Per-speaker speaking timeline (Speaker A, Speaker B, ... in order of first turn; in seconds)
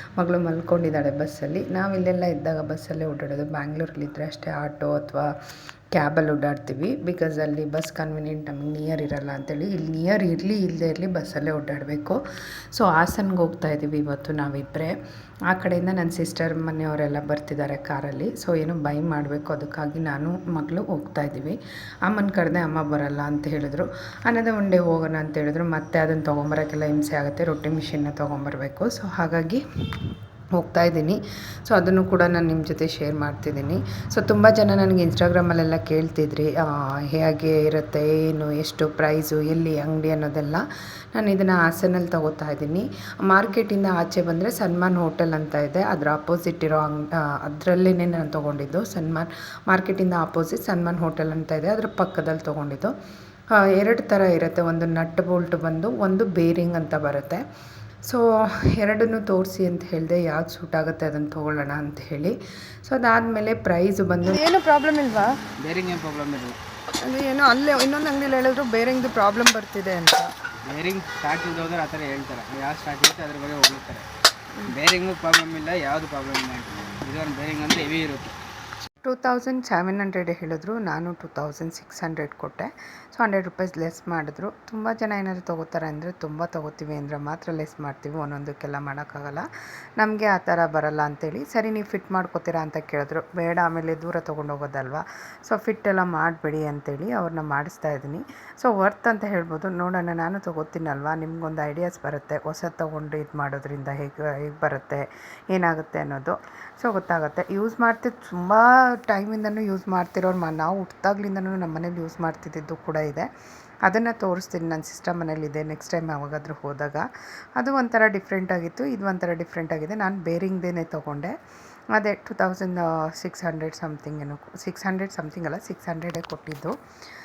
Speaker A: 0.2-5.3, 5.9-12.2, 12.7-14.9, 15.5-29.6, 30.6-52.9, 53.5-57.4, 58.1-64.5, 79.0-89.5, 90.0-113.3, 113.8-121.3, 121.9-126.8
Speaker B: 64.3-65.4, 67.0-70.3
Speaker C: 65.6-66.6, 70.6-74.1, 74.7-78.4